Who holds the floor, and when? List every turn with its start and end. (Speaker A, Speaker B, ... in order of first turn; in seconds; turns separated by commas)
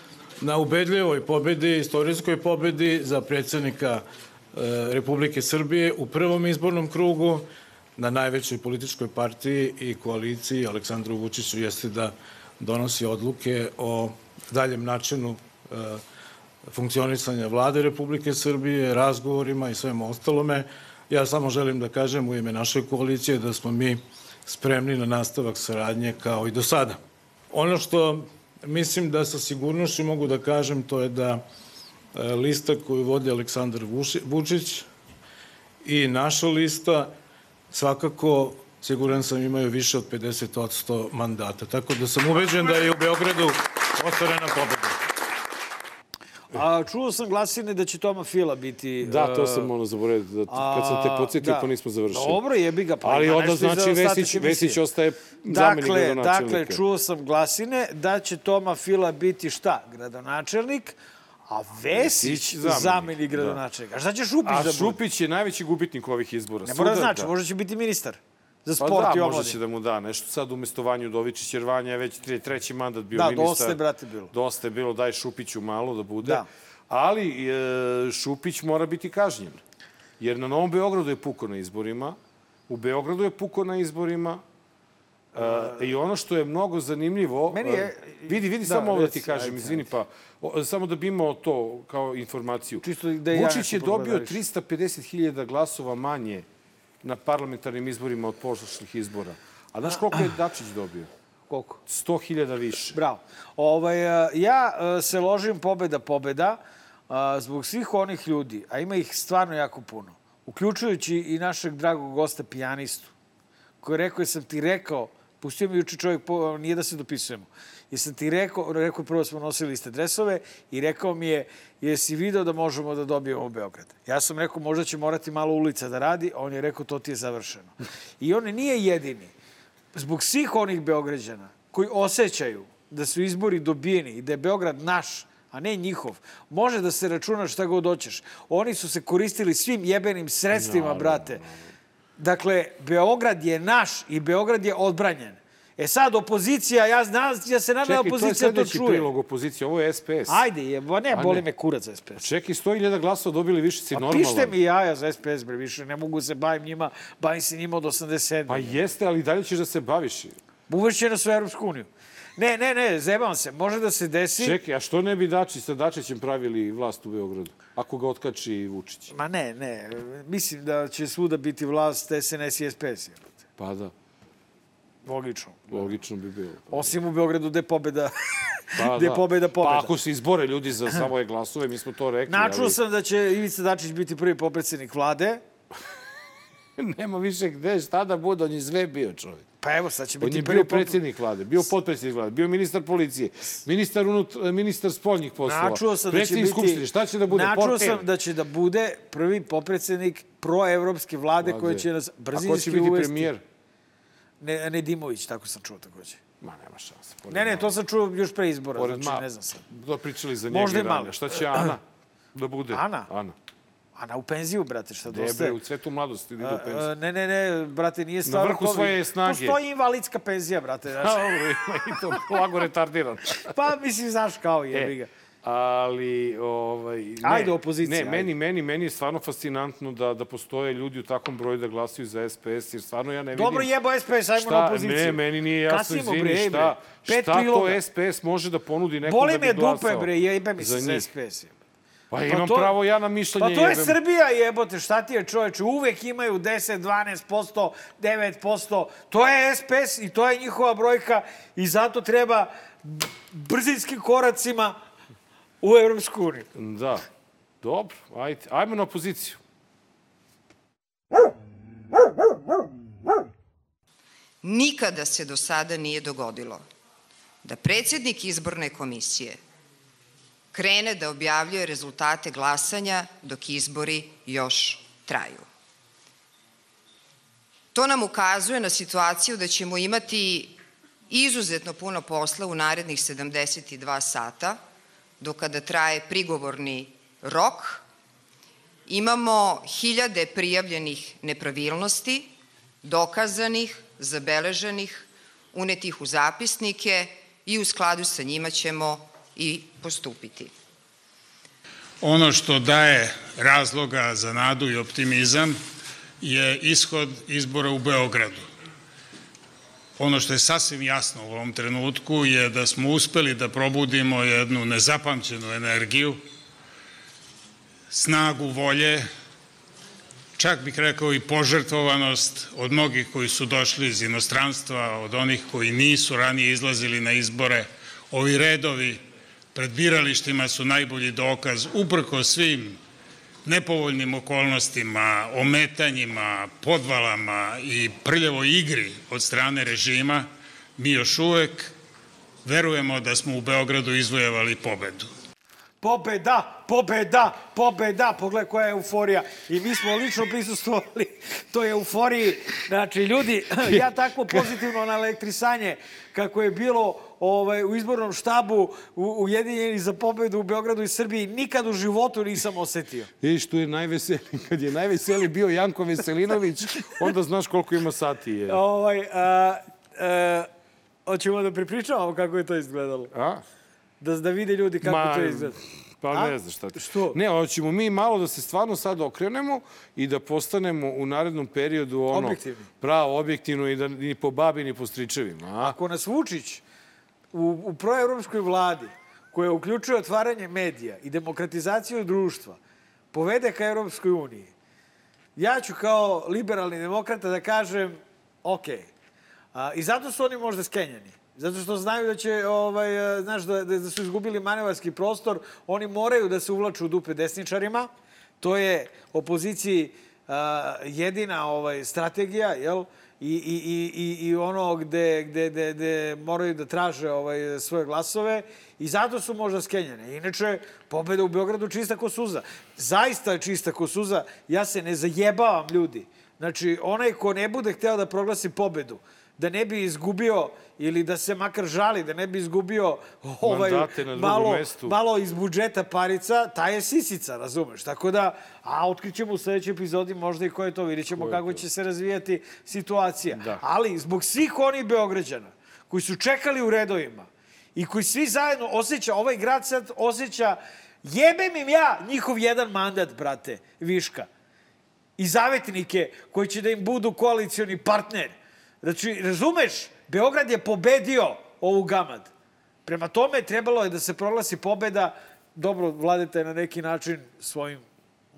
Speaker A: 0.4-16.0, Speaker A: 16.7-31.4, Speaker A: 32.1-34.9, Speaker A: 35.8-37.1, Speaker A: 37.7-45.0, Speaker B: 46.5-49.7, Speaker C: 49.0-52.4, Speaker B: 50.5-54.8, Speaker C: 53.0-56.8, Speaker B: 55.5-61.0, Speaker B: 61.5-65.0, Speaker C: 61.9-63.6, Speaker C: 64.5-67.3, Speaker B: 66.7-69.6, Speaker C: 68.8-73.8, Speaker B: 73.1-74.3, Speaker C: 74.3-79.6, Speaker B: 76.2-76.5, Speaker C: 80.2-82.2, Speaker C: 82.7-84.4, Speaker C: 85.3-96.5, Speaker B: 85.4-85.9, Speaker B: 87.5-89.9, Speaker B: 92.8-94.4, Speaker C: 97.0-101.1, Speaker B: 101.5-101.8, Speaker C: 101.9-103.0, Speaker B: 102.9-113.1, Speaker B: 113.8-129.3, Speaker B: 129.9-141.4, Speaker C: 140.5-141.6, Speaker B: 142.2-149.1, Speaker C: 147.8-150.5, Speaker B: 150.3-152.3, Speaker C: 151.1-151.4, Speaker C: 152.2-154.6, Speaker B: 153.9-158.8, Speaker C: 158.5-160.4, Speaker B: 160.7-164.6, Speaker C: 164.4-169.1, Speaker B: 169.1-173.4, Speaker C: 173.6-173.9, Speaker B: 175.1-176.0, Speaker C: 175.7-177.0, Speaker B: 176.7-179.9, Speaker C: 178.8-182.8, Speaker B: 182.3-185.4, Speaker C: 186.8-189.5, Speaker B: 189.6-191.0, Speaker C: 190.2-198.1, Speaker B: 195.4-203.3, Speaker C: 201.4-203.4, Speaker B: 204.4-206.2, Speaker C: 206.4-207.8, Speaker B: 207.3-209.7, Speaker C: 208.8-211.8, Speaker B: 210.5-211.7, Speaker C: 212.3-213.4, Speaker B: 212.7-213.1, Speaker B: 213.9-215.6, Speaker C: 215.1-216.9, Speaker B: 216.4-221.3, Speaker C: 218.2-219.6, Speaker C: 221.0-223.5, Speaker B: 223.4-225.1, Speaker C: 224.7-233.7, Speaker B: 227.2-228.3, Speaker B: 233.3-237.8, Speaker C: 234.3-241.1, Speaker B: 239.1-241.5, Speaker C: 242.1-244.0, Speaker B: 242.3-242.8, Speaker B: 243.4-254.8, Speaker B: 255.6-256.5, Speaker C: 256.5-257.0, Speaker C: 257.6-259.4, Speaker D: 264.4-266.6, Speaker D: 267.4-269.4, Speaker D: 270.5-275.5, Speaker D: 277.7-280.6, Speaker D: 281.1-284.6, Speaker D: 285.2-287.8, Speaker D: 288.9-300.5, Speaker E: 302.0-305.6, Speaker E: 306.2-308.4, Speaker E: 310.0-316.2, Speaker E: 317.9-319.1, Speaker E: 320.4-329.0, Speaker E: 329.6-332.8, Speaker E: 333.4-341.7, Speaker E: 342.4-345.1, Speaker B: 345.8-363.1, Speaker C: 353.6-354.5, Speaker C: 363.2-368.6, Speaker B: 368.5-370.5, Speaker B: 371.1-373.1, Speaker C: 373.1-373.4, Speaker B: 374.0-377.2, Speaker C: 374.8-385.8, Speaker B: 382.1-382.7, Speaker B: 385.6-386.6, Speaker B: 387.3-392.6, Speaker B: 393.1-394.5, Speaker B: 395.4-398.9, Speaker B: 399.5-454.3, Speaker C: 433.4-435.0, Speaker C: 441.1-441.6, Speaker C: 443.3-443.6, Speaker B: 455.2-462.3, Speaker B: 462.9-467.8